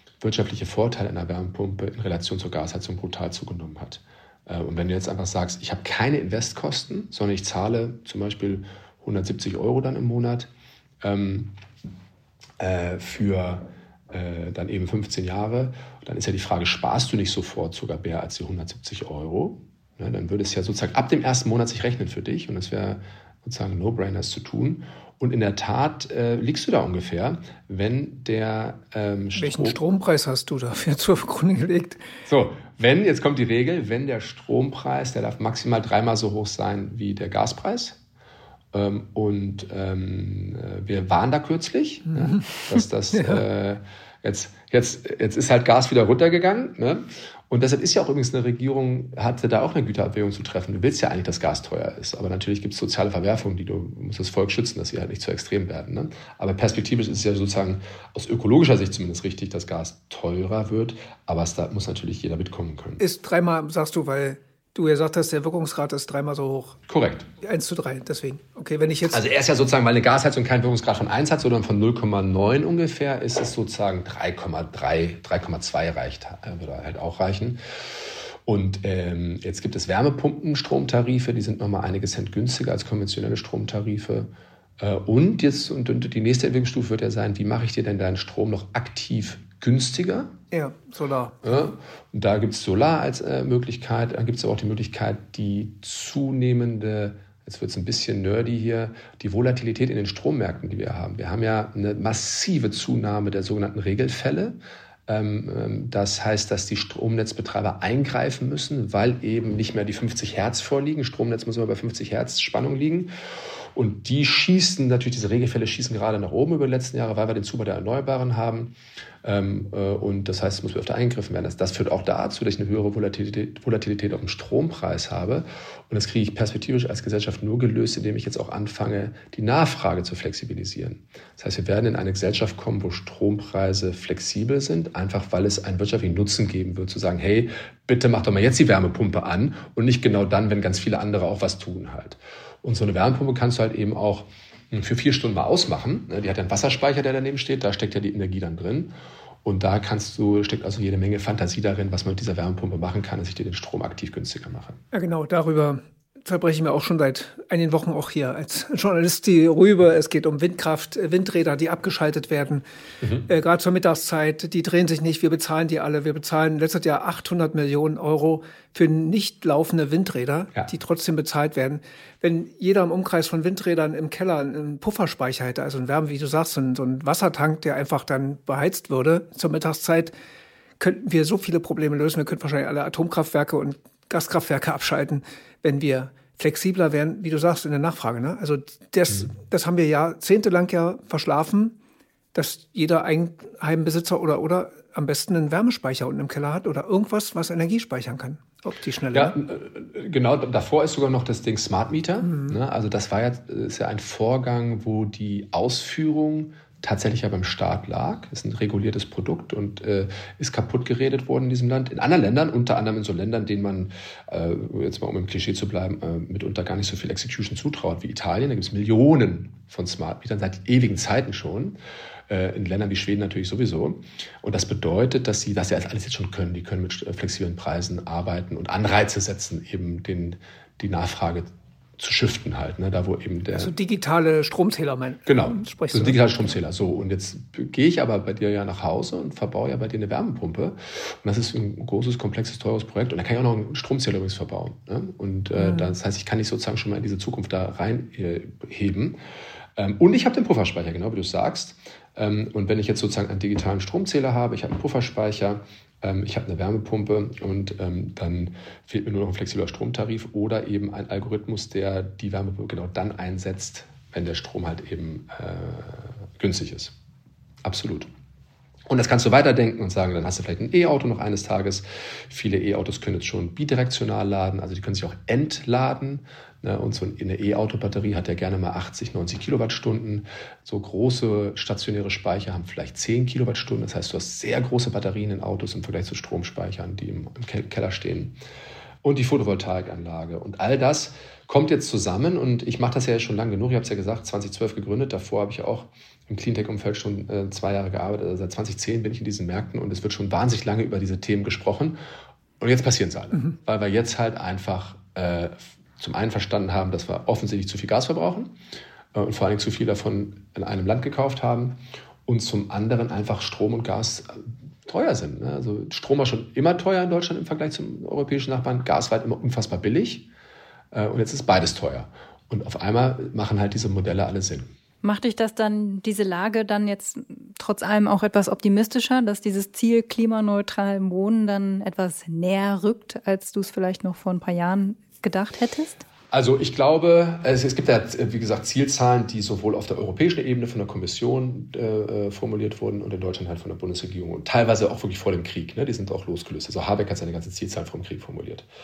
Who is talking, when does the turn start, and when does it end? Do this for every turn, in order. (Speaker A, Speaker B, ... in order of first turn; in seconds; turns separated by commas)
Speaker A: 0.2-10.5, Speaker A: 11.0-11.5, Speaker A: 12.6-29.8, Speaker B: 29.4-32.0, Speaker A: 32.3-38.0, Speaker A: 38.7-63.0, Speaker B: 42.1-42.6, Speaker B: 43.1-43.4, Speaker B: 63.0-66.8, Speaker A: 66.9-67.3, Speaker B: 67.4-69.2, Speaker A: 69.1-77.6, Speaker A: 78.4-90.3, Speaker B: 90.5-91.4, Speaker A: 91.4-113.1, Speaker A: 113.7-148.9, Speaker A: 149.4-154.8, Speaker B: 154.9-162.6, Speaker B: 163.3-180.1, Speaker B: 180.8-191.8, Speaker B: 192.3-199.3, Speaker A: 199.1-221.8, Speaker B: 202.2-202.6, Speaker A: 222.3-233.7, Speaker B: 233.5-236.4, Speaker A: 235.2-249.2, Speaker B: 245.6-245.9, Speaker A: 249.8-266.9, Speaker A: 267.6-268.1, Speaker A: 268.9-288.4, Speaker A: 289.0-302.0, Speaker A: 302.6-308.6, Speaker A: 309.1-320.3, Speaker A: 320.9-324.7, Speaker C: 325.0-336.0, Speaker A: 336.3-348.6